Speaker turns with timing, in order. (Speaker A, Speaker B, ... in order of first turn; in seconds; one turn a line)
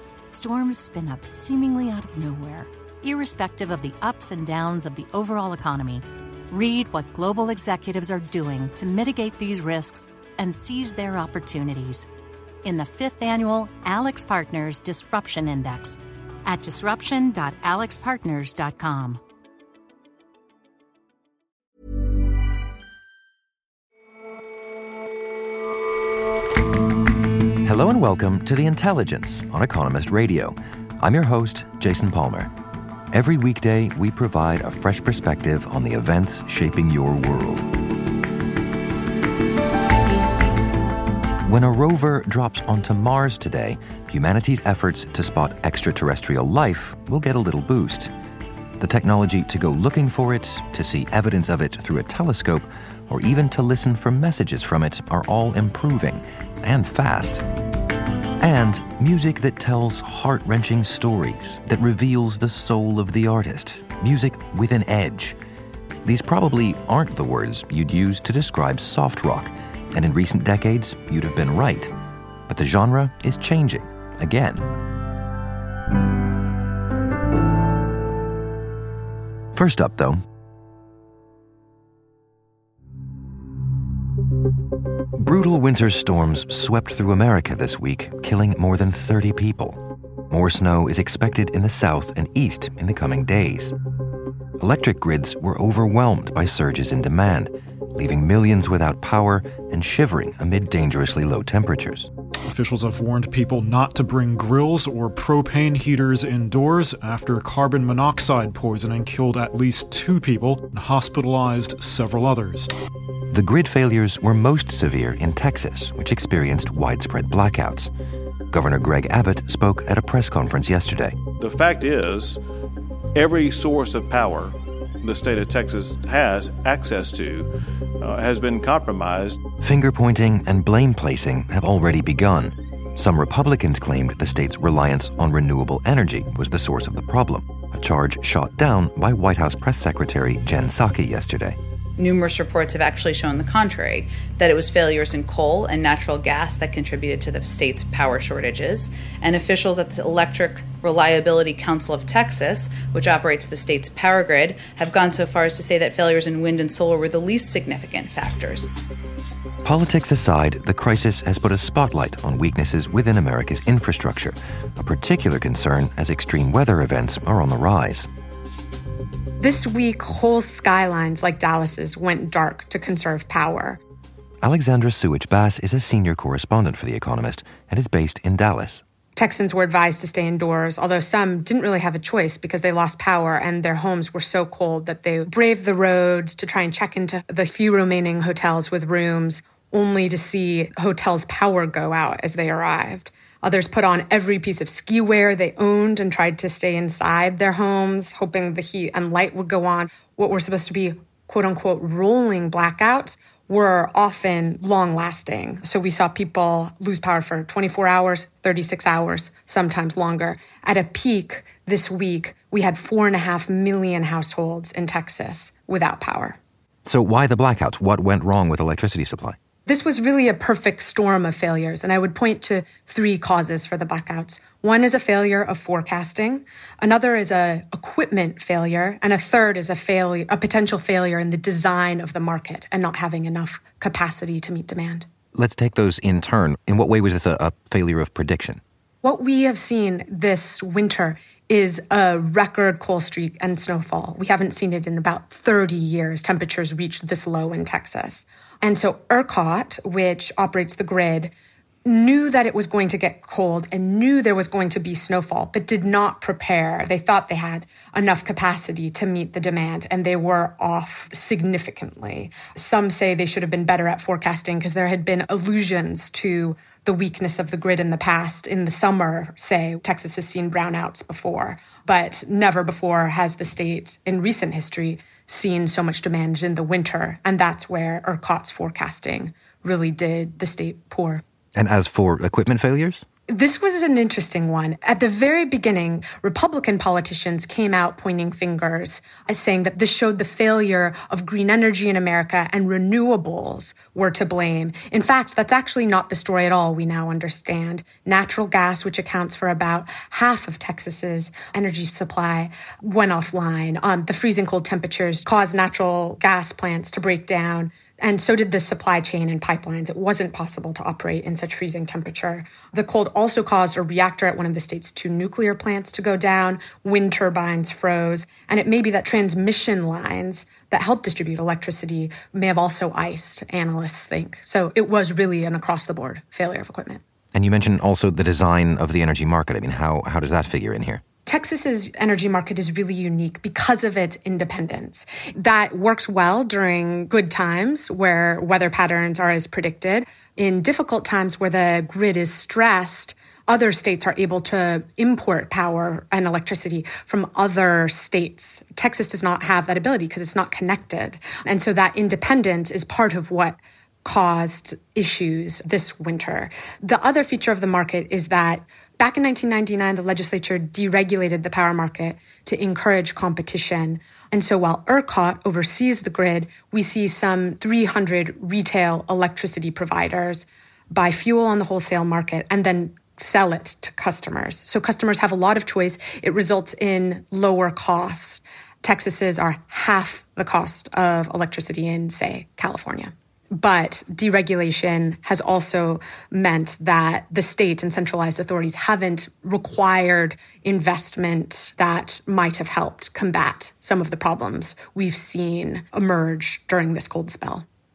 Speaker A: 0.3-12.1
Speaker A: 12.6-19.2
Speaker B: 27.6-32.5
Speaker B: 33.1-37.7
Speaker B: 41.5-48.1
Speaker B: 48.8-57.4
Speaker B: 58.4-65.4
Speaker B: 66.0-71.9
Speaker B: 72.5-74.7
Speaker B: 79.5-80.2
Speaker B: 85.2-89.8
Speaker B: 90.3-93.7
Speaker B: 94.6-102.1
Speaker C: 102.5-112.7
Speaker B: 113.3-117.9
Speaker B: 118.5-121.2
Speaker D: 121.4-122.4
Speaker D: 123.2-127.5
Speaker D: 128.0-129.4
Speaker B: 129.6-141.6
Speaker E: 142.0-158.7
Speaker B: 159.6-168.1
Speaker F: 169.4-173.8
Speaker B: 174.4-178.8
Speaker F: 179.2-216.4
Speaker B: 216.8-219.4
Speaker F: 219.7-235.1
Speaker B: 235.3-238.6
Speaker F: 239.0-251.3
Speaker F: 251.8-281.2
Speaker B: 281.6-283.0
Speaker F: 283.3-327.0
Speaker B: 327.3-331.0
Speaker F: 331.3-397.6